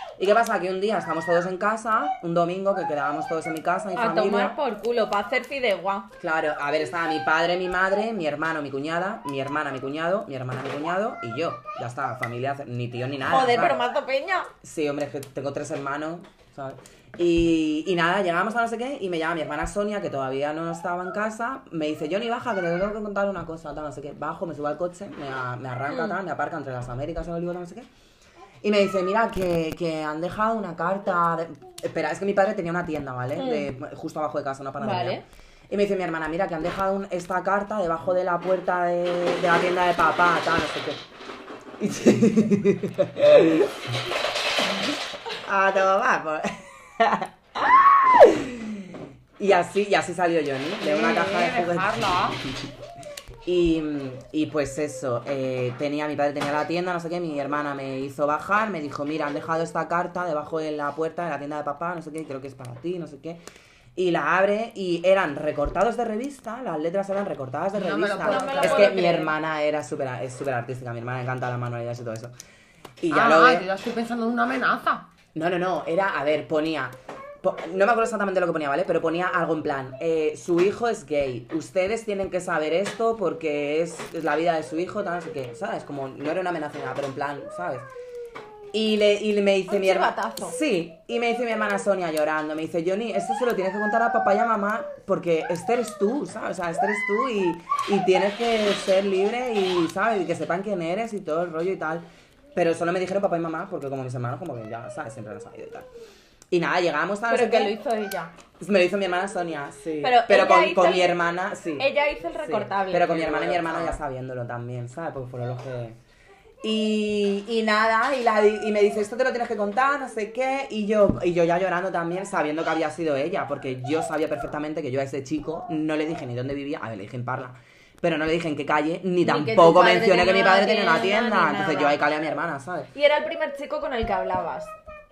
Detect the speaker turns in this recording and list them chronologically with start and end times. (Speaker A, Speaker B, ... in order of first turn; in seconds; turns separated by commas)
Speaker A: 0.2-4.6, Speaker B: 3.9-6.1, Speaker A: 6.2-13.8, Speaker B: 13.3-14.5, Speaker A: 14.6-27.9, Speaker B: 25.9-26.2, Speaker A: 28.6-41.0, Speaker B: 33.4-33.7, Speaker B: 34.8-35.2, Speaker A: 41.8-44.0, Speaker A: 44.7-47.3, Speaker A: 47.9-52.4, Speaker C: 50.8-52.4, Speaker A: 53.4-63.4, Speaker A: 64.0-72.3, Speaker C: 67.7-69.0, Speaker B: 68.2-69.3, Speaker A: 73.0-73.7, Speaker C: 73.1-75.1, Speaker A: 75.3-87.9, Speaker A: 88.7-105.9, Speaker B: 89.7-90.5, Speaker A: 106.5-107.7, Speaker B: 107.3-108.3, Speaker A: 108.6-116.0, Speaker B: 110.0-111.1, Speaker B: 111.8-113.9, Speaker A: 116.6-132.9, Speaker B: 129.2-132.0, Speaker B: 132.9-134.7